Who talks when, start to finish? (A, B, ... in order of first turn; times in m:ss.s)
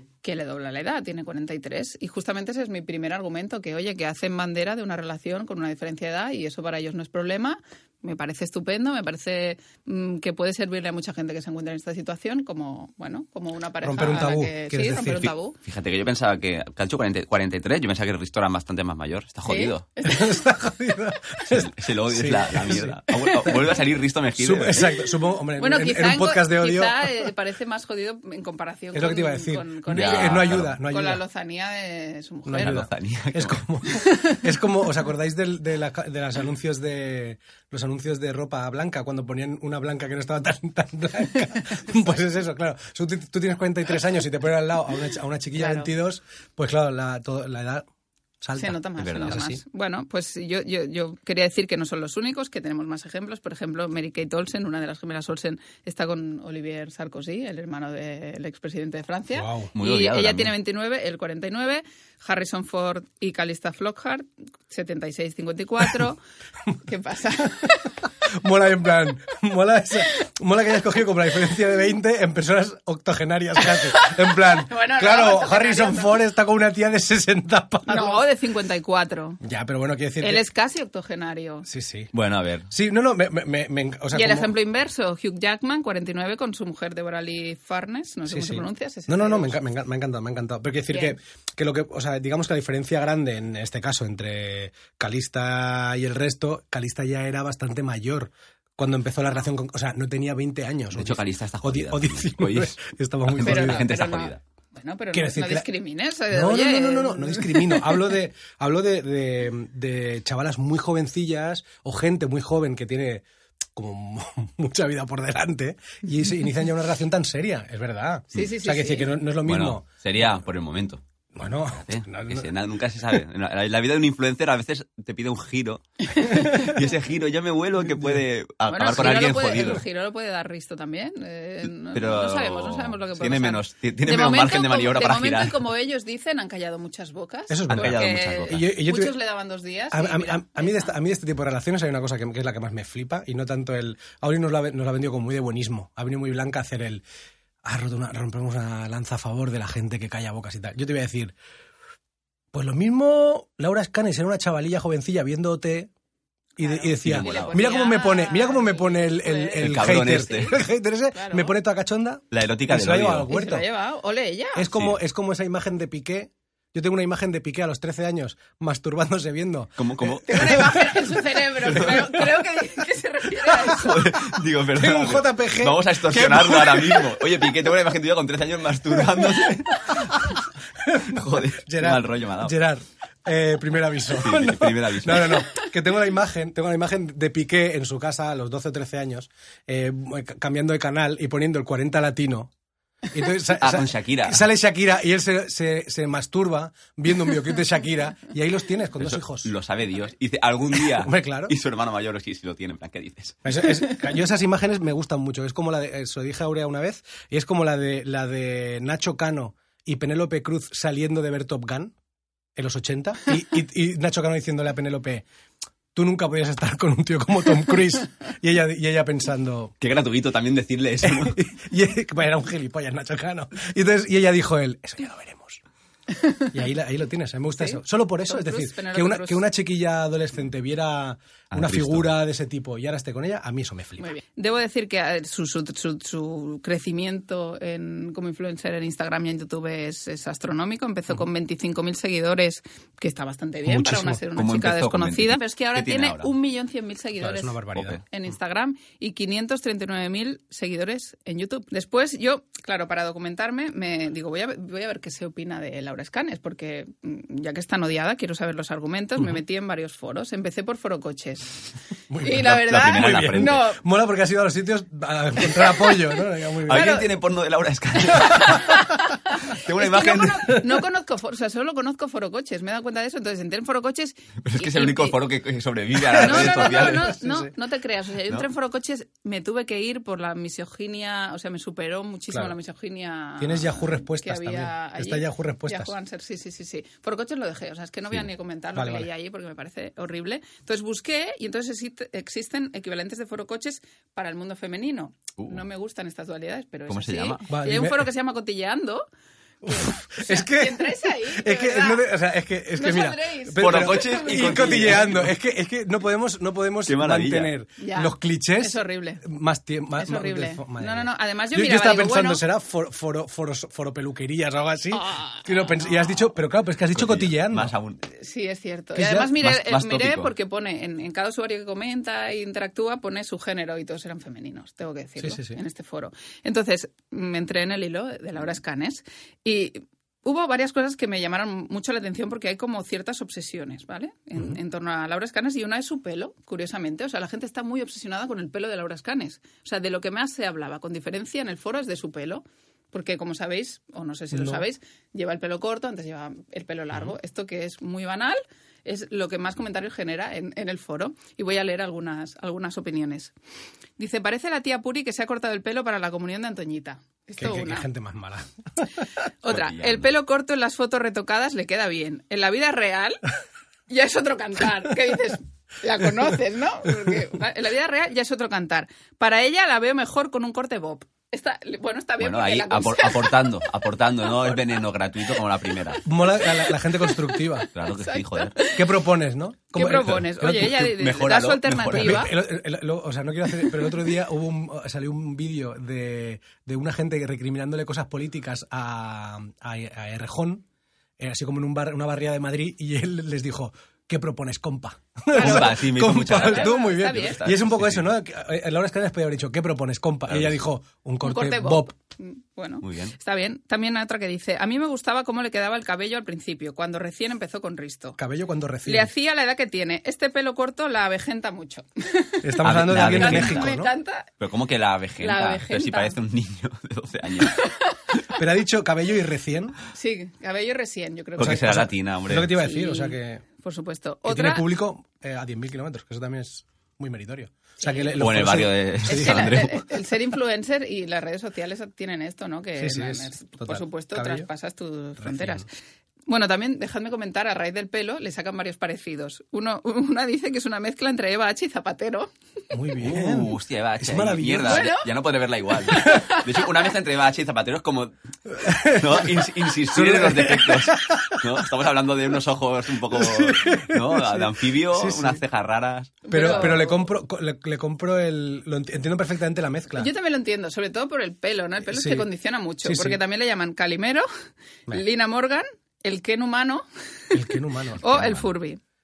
0:00.2-0:15.6 A
0:13.8-0:15.3 B
0:15.6-0:19.8 C
0:19.5-0:20.4 A
0:20.0-0:23.8 B
0:21.5-0:24.9 C
0:24.4-0:27.3 B
0:25.6-0:32.8 A
0:28.9-0:31.2 B
0:29.9-0:30.8 C
0:32.4-0:47.9 B
0:32.6-0:33.6 C
0:33.9-0:34.4 A
0:45.6-0:45.9 A
0:48.4-0:49.6 B
0:48.6-1:06.2 A
0:49.0-0:49.4 C
0:59.3-0:59.7 B
0:59.7-1:00.5 C
1:06.8-1:08.0 A
1:08.2-1:18.2 B
1:13.7-1:16.1 A
1:17.9-1:19.4 A
1:19.4-1:20.4 B
1:20.2-1:21.7 A
1:21.6-1:22.1 B
1:22.1-1:22.7 C
1:22.7-1:24.5 B
1:24.1-1:29.6 A
1:28.3-1:43.9 B
1:40.9-1:44.4 C
1:43.4-1:48.1 A
1:45.1-1:45.6 B
1:46.3-1:53.2 B
1:53.7-1:59.8 B
1:58.3-1:59.1 A
1:59.4-2:01.0 C
2:01.3-2:02.5 B
2:01.8-2:09.8 C
2:08.7-2:20.9 A
2:11.9-2:15.6 C
2:17.5-2:19.1 B
2:17.7-2:18.6 C
2:19.9-2:27.0 B
2:27.6-2:31.3 B
2:32.5-2:35.9 B
2:36.6-2:40.5 A
2:36.6-2:43.6 B
2:37.0-2:37.6 C
2:39.6-2:40.6 C
2:41.1-2:41.5 A
2:42.3-2:43.3 C
2:43.3-2:44.6 A
2:44.6-2:50.7 B
2:44.7-2:45.0 C
2:49.8-2:50.7 C
2:50.2-2:54.1 A
2:51.6-2:52.2 C
2:53.6-3:00.4 C
2:54.8-2:57.3 B
3:00.8-3:12.5 B
3:01.1-3:02.6 C
3:04.1-3:05.5 C
3:13.1-3:19.5 B
3:13.5-3:14.4 C
3:19.0-3:23.5 C
3:20.8-3:21.5 B
3:23.4-3:31.9 B
3:32.6-3:35.2 B
3:35.9-3:39.7 B
3:39.8-3:41.4 C
3:41.0-3:45.6 B
3:46.5-3:54.1 B
3:47.6-3:49.4 A
3:51.5-3:52.1 C
3:54.0-4:21.6 A
4:03.6-4:04.2 B
4:04.3-4:06.3 C
4:07.2-4:08.0 B
4:07.8-4:08.0 C
4:22.1-4:27.0 B
4:22.2-4:23.8 A
4:22.4-4:23.6 C
4:26.6-4:28.7 C
4:26.7-4:27.1 A
4:28.1-4:35.2 A
4:29.5-4:30.6 C
4:34.4-4:37.1 C
4:36.1-4:37.5 B
4:36.1-4:59.0 A
4:43.4-4:45.9 B
4:48.7-4:49.1 B
4:56.9-4:57.4 C
4:57.5-4:58.1 B
4:59.6-5:17.7 B
4:59.7-5:02.1 A
5:02.7-5:05.1 A
5:03.6-5:05.3 C
5:06.9-5:07.5 C
5:07.8-5:09.2 A
5:10.0-5:12.4 A
5:14.9-5:15.7 A
5:16.9-5:18.0 C
5:18.2-5:53.3 A
5:19.0-5:19.3 B
5:19.4-5:20.3 C
5:25.2-5:25.6 B
5:44.3-5:44.6 B
5:54.0-5:57.9 A
5:57.4-5:59.0 B
5:59.4-6:03.2 A
5:59.4-6:00.0 C
6:03.9-6:13.6 A
6:12.2-6:16.0 C
6:16.0-6:17.7 B
6:16.7-6:19.0 A
6:17.7-6:18.6 C
6:18.7-6:20.9 B
6:19.7-6:22.3 A
6:20.5-6:22.3 C
6:21.9-6:30.6 B
6:31.2-6:41.9 B
6:35.3-6:37.4 A
6:35.3-6:38.0 C
6:40.3-6:40.6 C
6:41.2-6:48.2 A
6:42.8-6:43.2 C
6:48.2-6:49.1 B
6:48.8-6:54.3 A
6:52.4-6:53.9 B
6:52.6-6:53.7 C
6:54.4-6:57.6 C
6:55.2-6:56.2 A
6:57.4-6:57.8 A
6:58.3-6:59.8 B
6:59.9-7:01.8 A
7:01.4-7:02.5 C
7:01.4-7:03.4 B
7:02.5-7:04.7 A
7:04.2-7:09.7 B
7:07.8-7:08.2 A
7:08.2-7:09.8 C
7:09.0-7:15.7 A
7:12.8-7:14.5 B
7:15.2-7:15.6 B
7:16.3-7:22.3 A
7:22.7-7:24.9 B
7:23.0-7:28.1 C
7:24.6-7:25.0 A
7:25.9-7:26.4 A
7:28.5-7:31.6 B
7:28.8-7:36.7 C
7:33.1-7:35.4 B
7:36.2-7:37.1 A
7:36.3-7:40.1 B
7:39.9-7:44.3 A
7:41.9-7:42.3 B
7:42.8-7:43.2 B
7:44.9-7:48.8 A
7:47.3-7:48.4 B